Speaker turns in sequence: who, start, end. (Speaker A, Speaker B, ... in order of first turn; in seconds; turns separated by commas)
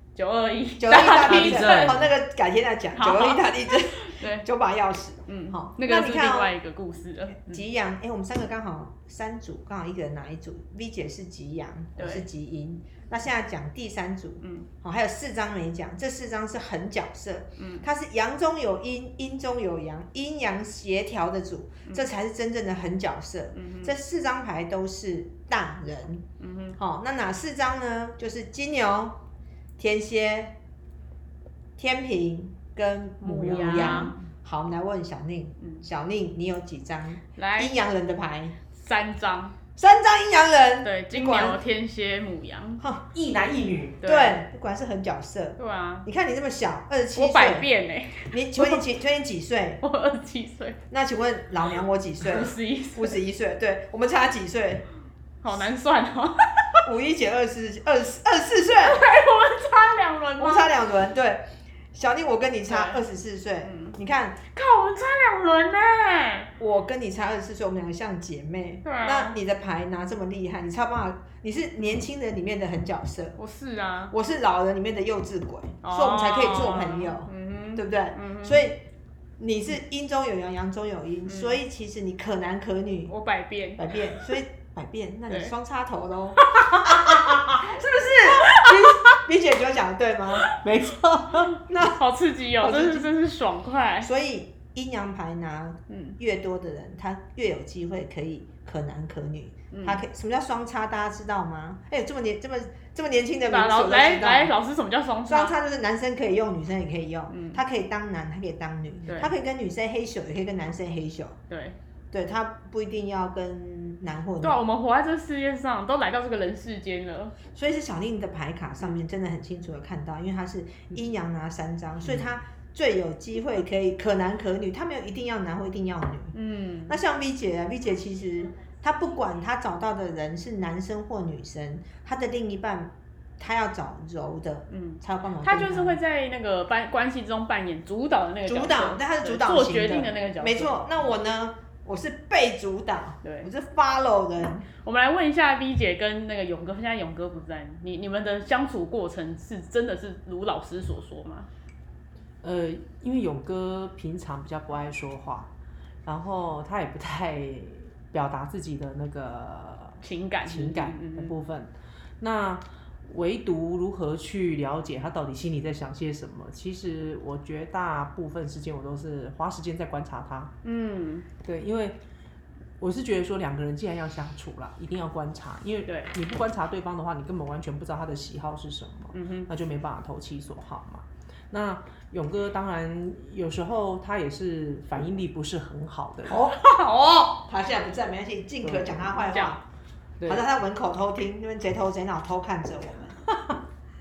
Speaker A: 0.1-2.0, Speaker B: 0.8-6.5, Speaker C: 1.2-2.0, Speaker A: 3.0-4.5, Speaker A: 5.3-7.6, Speaker B: 7.4-26.2, Speaker A: 12.0-12.3, Speaker A: 14.4-14.7, Speaker A: 17.6-17.9, Speaker A: 23.5-23.9, Speaker A: 26.4-26.8, Speaker B: 26.8-29.2, Speaker B: 29.8-30.5, Speaker B: 31.8-38.6, Speaker A: 33.2-34.2, Speaker C: 33.4-34.1, Speaker A: 35.6-35.9, Speaker A: 37.4-37.7, Speaker A: 38.7-39.5, Speaker B: 39.8-41.6, Speaker A: 40.8-42.8, Speaker B: 42.8-43.1, Speaker C: 43.1-44.0, Speaker A: 44.0-44.4, Speaker B: 44.0-47.7, Speaker A: 45.6-46.1, Speaker A: 47.2-48.9, Speaker B: 48.3-49.8, Speaker A: 49.8-50.8, Speaker B: 50.9-54.9, Speaker A: 52.2-53.2, Speaker A: 55.4-56.7, Speaker B: 56.9-59.0, Speaker A: 58.8-60.7, Speaker B: 60.4-64.4, Speaker A: 62.7-63.0, Speaker A: 63.6-64.0, Speaker A: 64.5-66.5, Speaker B: 66.6-73.4, Speaker A: 68.8-69.4, Speaker A: 73.4-74.2, Speaker B: 74.1-78.8, Speaker A: 75.8-78.6, Speaker B: 79.4-83.1, Speaker A: 81.3-81.6, Speaker A: 83.1-83.9, Speaker B: 83.8-86.9, Speaker A: 85.3-85.5, Speaker A: 86.4-87.7, Speaker B: 87.5-90.5, Speaker A: 88.3-89.0, Speaker C: 90.6-91.5, Speaker B: 91.7-92.0, Speaker A: 91.8-94.1, Speaker B: 92.6-93.1, Speaker B: 94.0-104.5, Speaker A: 95.9-96.2, Speaker A: 99.7-100.0, Speaker A: 103.5-105.5, Speaker B: 105.3-111.4, Speaker A: 107.3-107.6, Speaker A: 109.1-109.3, Speaker A: 111.5-111.8, Speaker B: 112.1-114.6, Speaker A: 114.4-117.4, Speaker B: 117.5-126.3, Speaker C: 122.0-122.3, Speaker A: 126.3-127.0, Speaker B: 126.9-136.0, Speaker A: 134.7-141.0, Speaker B: 138.4-144.7, Speaker A: 143.2-143.5, Speaker A: 144.8-151.5, Speaker C: 152.4-155.5, Speaker C: 156.1-170.5, Speaker A: 160.0-161.3, Speaker A: 170.6-171.3, Speaker C: 171.4-172.0, Speaker C: 172.8-186.5, Speaker A: 175.9-176.1, Speaker A: 179.1-179.5, Speaker B: 186.3-189.6, Speaker A: 186.7-187.2, Speaker C: 188.6-189.1, Speaker A: 189.2-189.6, Speaker B: 190.3-193.6